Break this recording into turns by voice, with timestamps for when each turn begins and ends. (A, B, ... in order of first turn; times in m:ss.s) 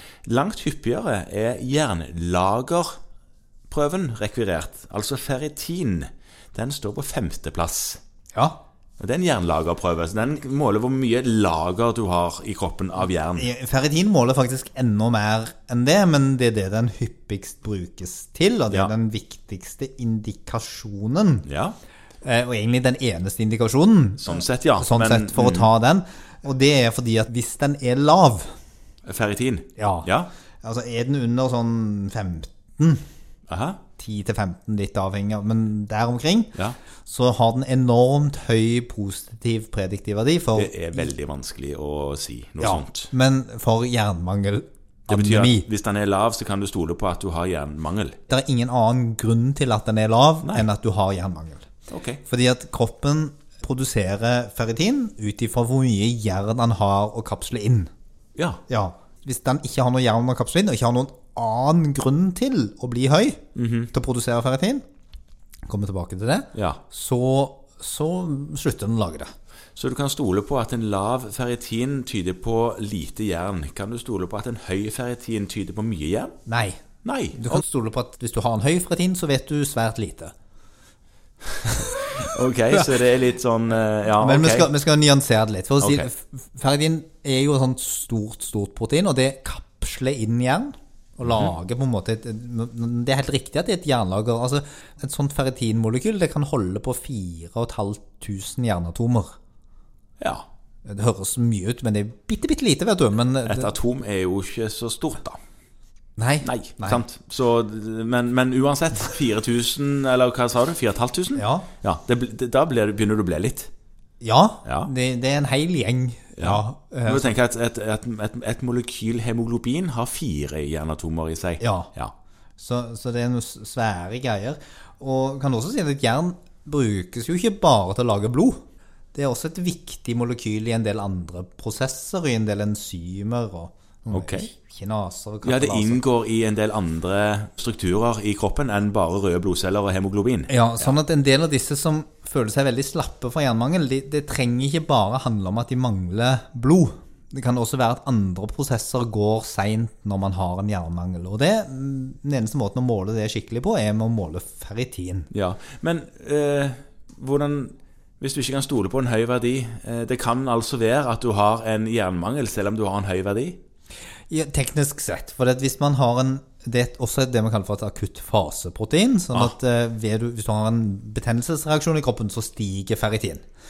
0:00.2-0:03.0 A
0:03.7-0:08.0 A
0:08.3-0:08.6 B
0:09.0-0:13.5 A
0:13.3-0:21.4 B
0:21.4-0:21.8 A
0:22.2-0:28.5 B
0:24.2-0:25.7 A
0:29.0-0:30.3 A
0:29.8-0:30.1 B
0:30.6-0:33.0 B
0:33.5-0:33.8 A
0:34.0-0:40.8 B
0:40.5-0:43.1 A
0:42.6-0:45.7 B
0:45.1-0:48.2 A
0:48.3-0:51.6 B
0:51.9-0:52.2 A
0:52.3-0:57.9 B
0:58.4-0:58.6 A
0:58.7-1:03.4 B
1:03.5-1:03.9 A
1:03.9-1:04.8 B
1:05.6-1:09.3 B
1:06.5-1:06.8 A
1:09.8-1:16.4 A
1:16.4-1:16.8 B
1:17.0-1:17.6 A
1:17.3-1:20.3 B
1:21.8-1:24.7 A
1:24.2-1:39.3 B
1:25.8-1:26.1 A
1:31.2-1:31.5 A
1:40.8-1:43.7 B
1:43.4-1:45.4 A
1:46.2-1:47.0 B
1:46.4-1:53.7 A
1:51.3-1:51.7 B
1:54.2-1:57.4 B
1:54.6-1:54.9 A
1:56.4-2:02.1 A
2:01.6-2:01.9 B
2:02.6-2:08.6 B
2:09.1-2:16.0 B
2:14.1-2:14.5 A
2:15.4-2:20.9 A
2:20.5-2:35.3 B
2:35.3-2:43.6 A
2:44.3-2:53.4 B